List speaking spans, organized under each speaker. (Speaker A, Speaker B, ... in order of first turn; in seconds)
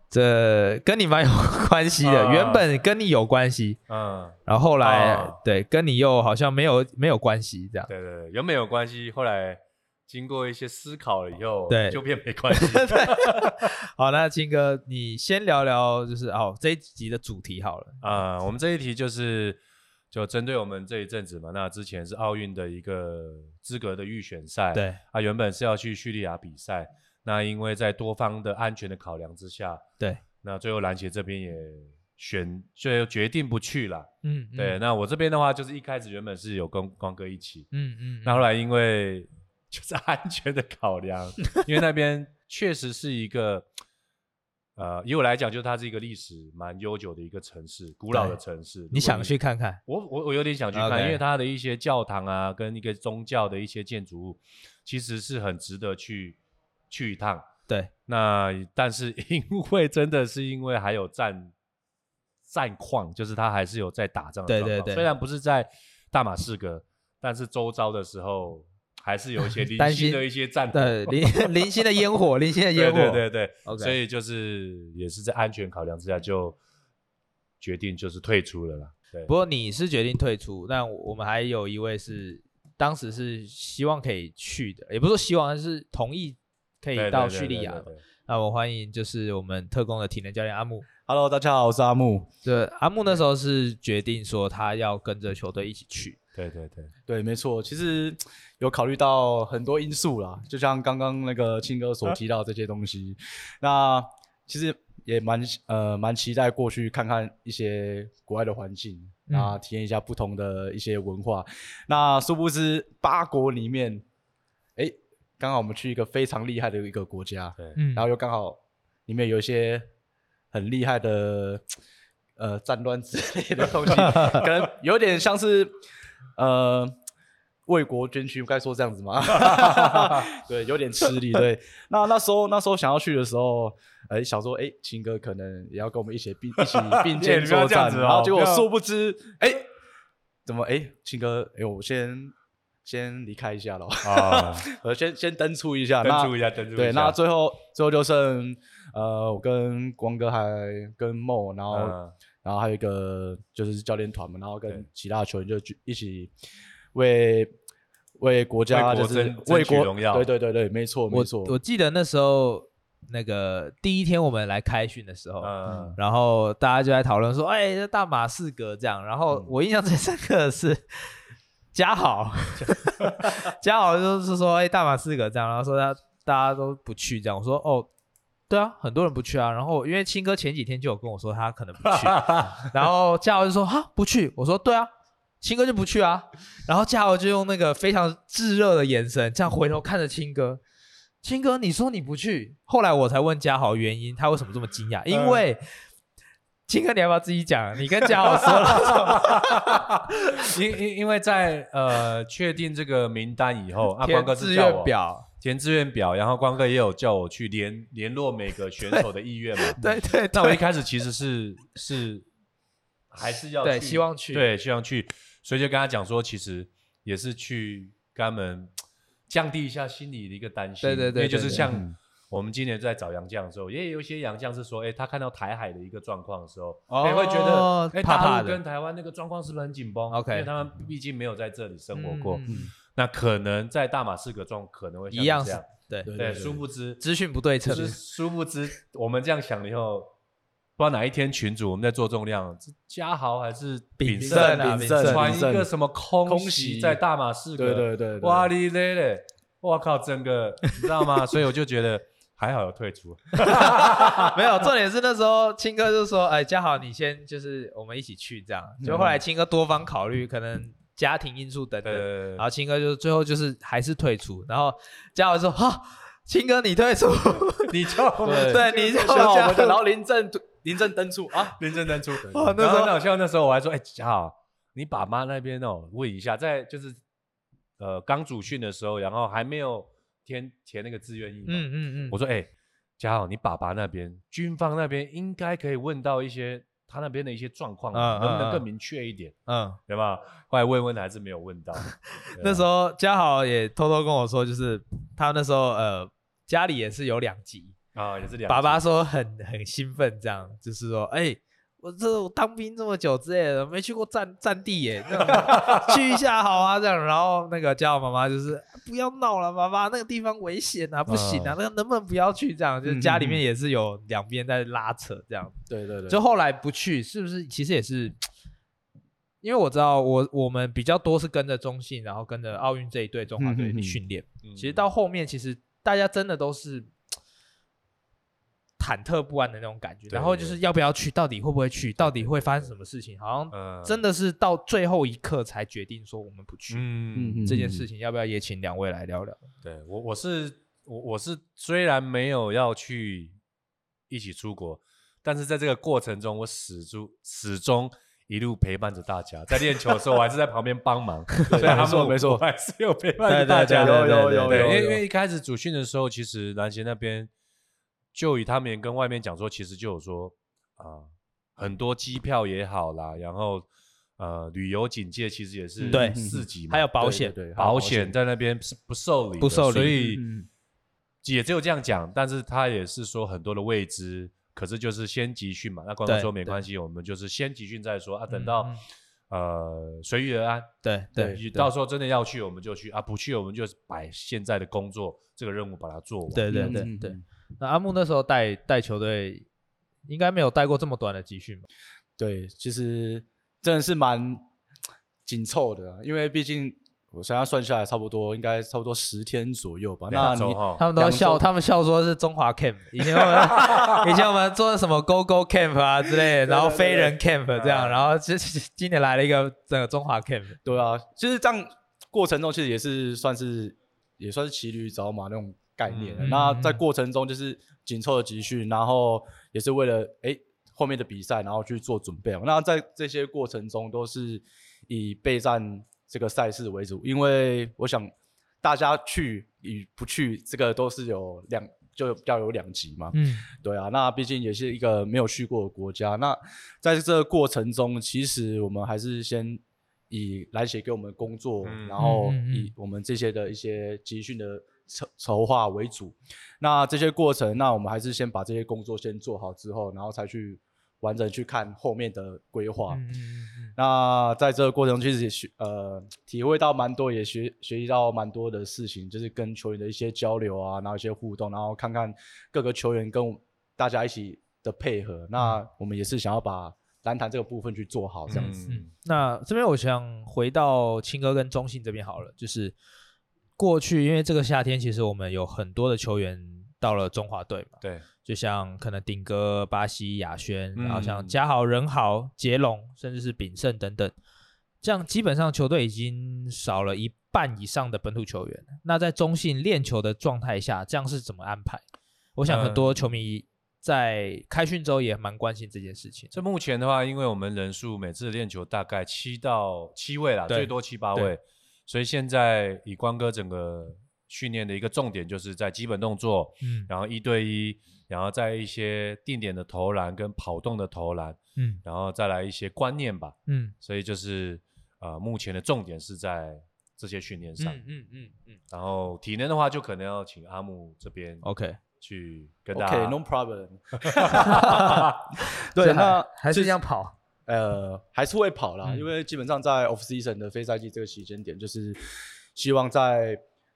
Speaker A: 0.1-3.8, 4.5-7.9, 11.7-18.0, 24.7-25.0, 34.2-34.8, 37.7-38.5, 48.1-48.4, 48.9-49.8, 50.7-51.2, 64.5-65.1, 69.6-74.0, 79.3-90.9, 92.5-96.2, 109.3-109.6, 117.8-118.1, 123.9-124.4, 161.1-171.2, 171.7-177.9, 178.5-184.9, 185.4-190.6, 191.2-195.6, 196.7-199.8, 204.0-205.3, 209.7-210.6, 213.6-214.5, 220.8-221.7, 226.9-228.6, 230.1-230.5, 231.9-232.7, 235.1-236.1, 237.0-238.0, 244.0-245.3, 253.4-267.7, 268.3-269.8, 272.3-272.9, 281.5-282.2, 287.9-288.6, 289.5-289.8, 292.4-297.8, 298.5-315.6, 316.1-318.2, 319.4-326.9, 328.8-336.9, 337.4-339.4, 351.3-351.8, 353.3-354.8, 365.9-367.3, 369.4-370.0, 376.1-376.6, 378.3-378.8, 380.8-381.7, 386.3-389.5, 390.1-391.7, 400.2-410.6, 416.2-416.8, 433.1-433.5, 442.0-442.7, 452.9-453.8, 468.3-472.8, 473.6-484.1, 484.8-491.8, 492.4-496.4, 500.5-501.3, 506.6-506.9, 513.5-513.8, 517.6-518.6, 521.4-521.8, 524.3-527.1
Speaker B: 2.0-2.7, 3.9-5.4, 7.9-13.7, 18.0-19.6, 20.1-29.8, 30.4-37.7, 38.2-43.7, 44.8-49.3, 49.9-56.4, 56.9-57.5, 58.1-61.5, 62.5-71.8, 72.7-76.6, 77.6-79.3, 87.0-88.0, 96.3-96.9, 123.8-124.5, 129.4-130.3, 136.6-138.7, 144.0-144.7, 146.0-147.2, 151.7-152.2, 158.7-160.3, 165.4-166.0, 172.6-173.4, 181.9-182.6, 195.1-195.4, 198.2-212.3, 213.1-218.7, 219.3-237.0, 237.6-240.1, 240.8-254.7, 261.8-262.4, 267.7-269.7, 271.4-277.0, 277.8-289.4, 289.9-292.7, 297.9-298.8, 305.4-305.9, 311.1-311.6, 324.4-324.9, 330.1-330.6, 332.0-332.7, 333.5-334.0, 336.7-337.6, 339.6-343.4, 344.1-357.3, 358.1-363.7, 364.2-366.9, 367.6-370.2, 371.2-378.8, 379.3-386.8, 400.1-400.8, 407.5-408.1, 415.9-416.4, 441.6-442.0, 468.3-468.9, 477.8-478.1, 480.8-481.4, 492.5-493.1, 496.3-517.8, 518.7-521.5, 522.0-523.2, 524.0-525.1
Speaker C: 91.1-92.3, 97.1-114.0, 114.8-119.9, 120.5-121.6, 122.4-125.8, 126.4-127.0, 127.7-139.7, 140.5-142.3, 142.8-156.3, 156.9-157.5, 158.2-161.6, 165.7-166.0, 221.5-221.9, 232.5-232.7, 236.1-236.6, 244.2-245.7, 246.2-247.0, 247.6-248.5, 258.8-259.2, 268.2-271.6, 272.2-272.9, 312.9-313.4, 315.7-316.2, 323.4-324.0, 337.1-337.9, 351.5-352.4, 353.7-355.0, 365.8-368.1, 369.8-370.5, 386.5-387.2, 392.2-394.5, 395.3-401.5, 406.3-407.2, 410.6-428.1, 428.6-453.0, 453.8-468.6, 522.7-526.8, 527.5-532.0, 532.5-533.4